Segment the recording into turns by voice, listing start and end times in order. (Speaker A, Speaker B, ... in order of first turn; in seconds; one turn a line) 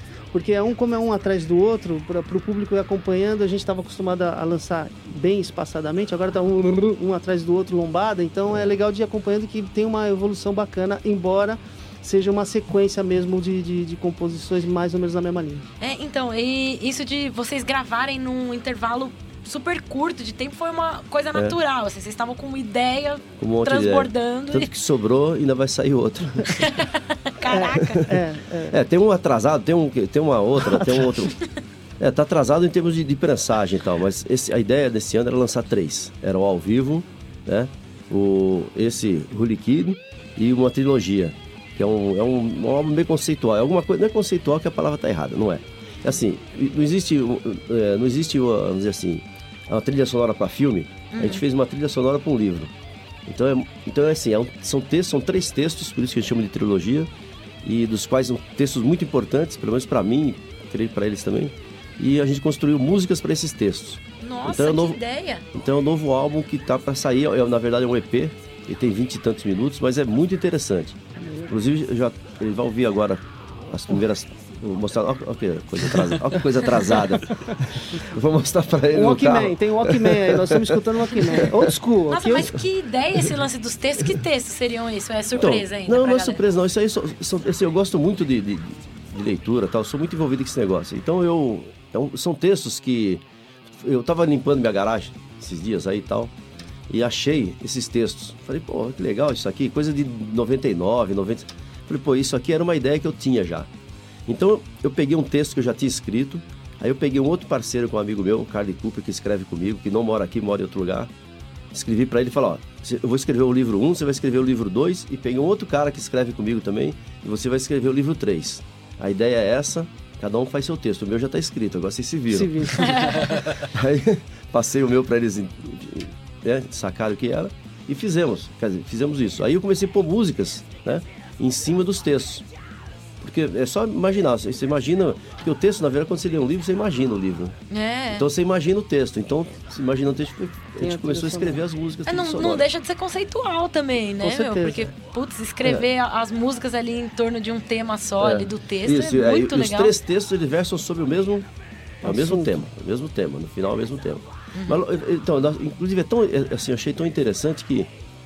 Speaker A: 0.3-15.7
Speaker B: 15.8-24.7
Speaker C: 23.4-26.5
Speaker B: 26.6-28.0
Speaker A: 27.5-28.8
Speaker C: 28.7-31.4
Speaker A: 30.8-31.1
Speaker C: 32.0-52.7
Speaker B: 51.1-51.4
Speaker C: 53.3-57.1
Speaker C: 57.6-65.0
Speaker B: 64.2-65.5
Speaker C: 65.5-81.7
Speaker A: 78.9-82.6
Speaker B: 82.1-86.4
Speaker C: 85.3-96.3
Speaker C: 96.9-103.7
Speaker C: 104.3-111.1
Speaker C: 111.7-122.8
Speaker A: 122.3-123.2
Speaker B: 122.8-123.3
Speaker C: 123.5-132.5
Speaker C: 133.2-137.6
Speaker B: 137.7-138.3
Speaker C: 138.1-142.7
Speaker A: 140.8-141.6
Speaker B: 142.1-149.9
Speaker A: 144.2-144.9
Speaker C: 148.2-151.5
Speaker C: 152.0-157.9
Speaker A: 152.0-152.6
Speaker B: 154.5-154.8